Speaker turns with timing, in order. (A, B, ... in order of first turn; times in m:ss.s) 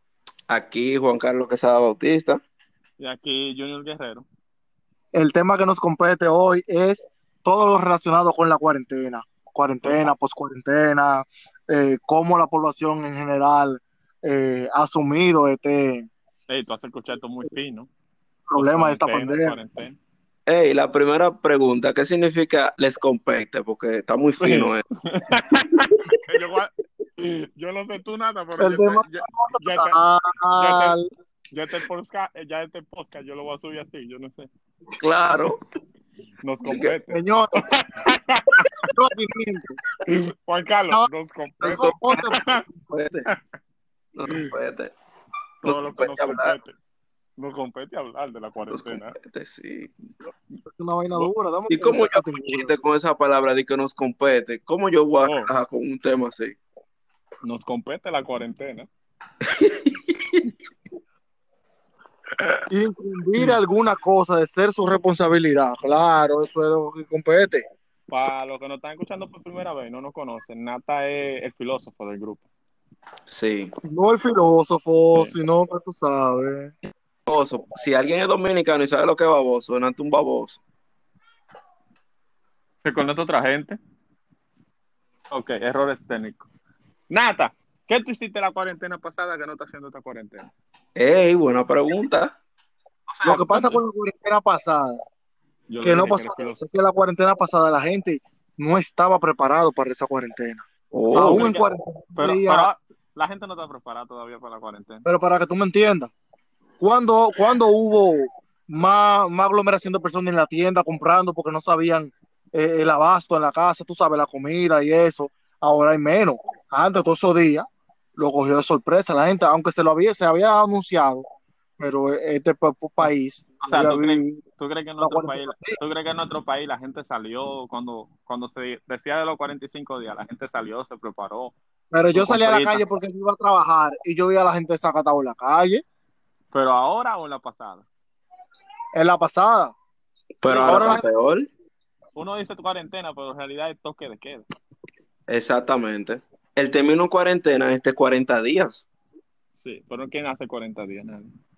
0:00.5-0:02.4 A
0:03.0-0:04.3 B
0:05.1-0:16.1 C
0:16.5-0:17.9 B
0:18.5-0:19.6 C
0:18.5-0:20.0 B
0:20.5-0:24.8 A
0:24.4-0:30.0 B
0:28.6-0:31.0 C
0:30.5-0:31.0 B
0:31.5-0:34.5 B
0:35.0-0:35.6 A
0:36.4-0:37.2 B
0:36.6-0:36.9 A
0:37.1-0:37.6 C
0:37.7-0:38.9 B
0:38.9-0:39.8 C
0:40.1-0:42.6 B
0:41.6-0:42.1 A
0:41.6-0:42.6 C
0:42.9-0:43.3 A
0:44.1-0:44.9 A
0:45.6-0:46.6 A
0:45.6-0:46.7 B
0:47.4-0:49.1 B
0:48.7-0:49.9 A
0:50.8-0:52.8 C
0:51.1-0:56.6 A
0:57.4-0:58.9 B
0:59.6-1:00.4 A
1:02.3-1:02.6 B
1:02.7-1:07.6 C
1:08.1-1:12.5 B
1:13.3-1:13.7 A
1:13.8-1:16.7 C
1:15.0-1:15.3 B
1:17.3-1:20.6 A
1:22.8-1:23.8 B
1:25.3-1:26.5 B
1:27.1-1:30.5 B
1:31.0-1:32.3 A
1:33.1-1:33.8 B
1:33.2-1:35.0 C
1:35.7-1:36.6 B
1:35.8-1:42.7 C
1:40.9-1:41.5 A
1:41.1-1:41.6 B
1:42.1-1:45.0 B
1:45.0-1:46.1 C
1:46.8-2:01.3 C
2:01.8-2:04.4 C
2:03.6-2:11.5 B
2:05.0-2:05.8 C
2:11.9-2:15.8 C
2:12.1-2:12.8 B
2:16.5-2:17.8 B
2:18.9-2:19.7 C
2:20.4-2:21.5 A
2:20.4-2:21.0 B
2:20.5-2:21.0 C
2:22.1-2:24.5 B
2:25.3-2:28.8 A
2:29.6-2:31.3 B